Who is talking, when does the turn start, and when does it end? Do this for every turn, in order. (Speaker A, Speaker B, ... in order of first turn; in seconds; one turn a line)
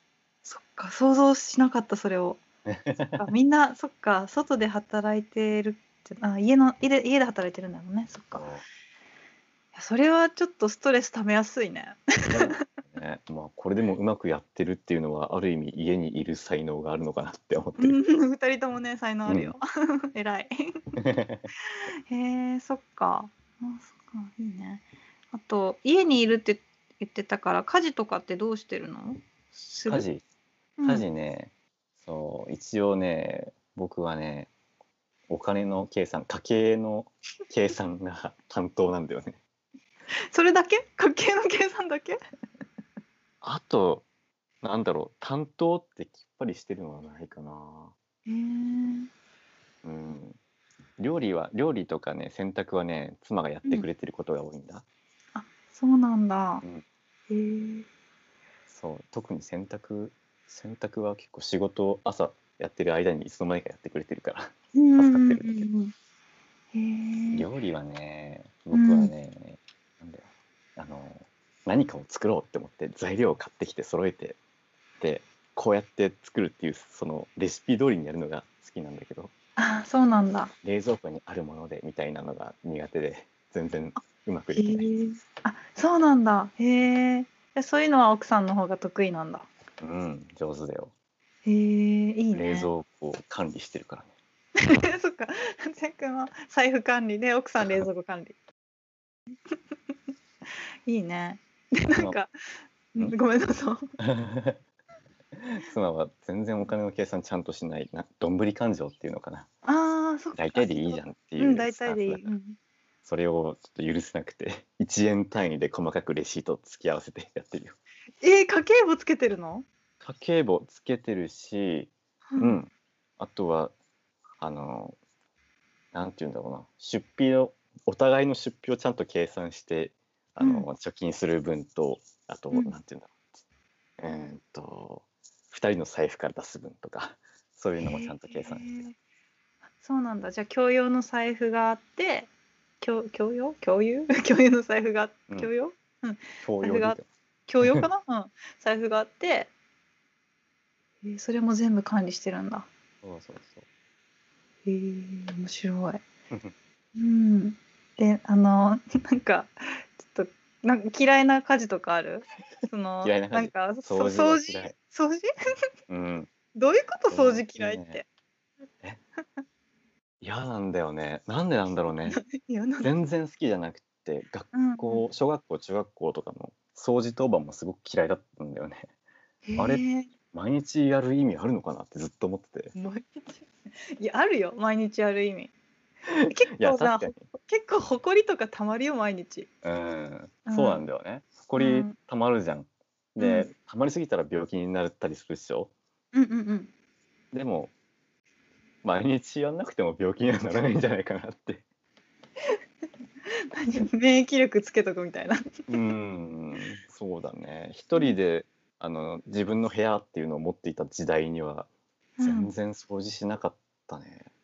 Speaker A: 0.4-2.4
Speaker B: 2.6-3.3
Speaker A: 3.2-8.5
Speaker B: 8.3-8.6
Speaker A: 9.7-12.6
Speaker B: 12.3-17.9
Speaker A: 17.8-20.8
Speaker B: 19.2-19.5
Speaker B: 21.0-21.5
Speaker A: 22.1-30.1
Speaker B: 29.9-30.2
Speaker A: 30.8-31.1
Speaker B: 30.8-34.5
Speaker B: 35.3-39.4
Speaker A: 40.3-42.2
Speaker B: 43.4-44.0
Speaker B: 44.6-47.9
Speaker A: 48.2-49.1
Speaker B: 49.8-50.4
Speaker B: 51.0-54.8
Speaker A: 55.3-56.6
Speaker A: 57.3-57.9
Speaker B: 58.7-65.7
Speaker A: 64.7-65.9
Speaker A: 66.7-67.5
Speaker B: 67.3-70.2
Speaker A: 68.7-69.1
Speaker B: 70.8-74.4
Speaker B: 75.0-79.3
Speaker A: 79.6-80.5
Speaker B: 80.6-84.9
Speaker A: 84.5-89.5
Speaker B: 89.8-90.9
Speaker A: 91.4-92.7
Speaker B: 92.3-94.1
Speaker A: 94.6-98.3
Speaker A: 100.8-102.3
Speaker A: 102.9-103.8
Speaker B: 104.0-104.6
Speaker B: 105.4-109.5
Speaker A: 109.6-112.6
Speaker B: 110.3-112.3
Speaker B: 113.0-117.8
Speaker A: 118.2-119.6
Speaker B: 120.0-123.7
Speaker A: 122.3-122.6
Speaker B: 124.4-125.0
Speaker B: 125.9-133.3
Speaker A: 130.4-130.7
Speaker B: 134.0-138.7
Speaker A: 137.8-138.9
Speaker A: 139.8-142.3
Speaker A: 142.8-149.5
Speaker B: 146.4-147.1
Speaker B: 147.6-147.9
Speaker A: 151.0-152.7
Speaker B: 153.0-153.6
Speaker A: 154.6-156.0
Speaker A: 156.9-165.3
Speaker B: 163.0-164.7
Speaker B: 165.9-166.3
Speaker A: 166.5-168.1
Speaker B: 167.1-168.0
Speaker B: 170.2-172.2
Speaker A: 172.1-172.9
Speaker B: 172.8-178.8
Speaker A: 174.5-175.1
Speaker A: 179.4-180.1
Speaker B: 179.6-182.7
Speaker A: 182.7-183.5
Speaker A: 184.0-185.5
Speaker B: 186.1-187.2
Speaker A: 186.3-189.5
Speaker B: 189.6-195.7
Speaker A: 190.4-190.8
Speaker A: 191.5-191.9
Speaker A: 193.2-193.5
Speaker A: 196.1-196.7
Speaker B: 197.3-197.7
Speaker B: 198.8-201.6
Speaker A: 203.5-205.8
Speaker B: 205.7-211.7
Speaker A: 212.2-212.5
Speaker B: 212.2-214.3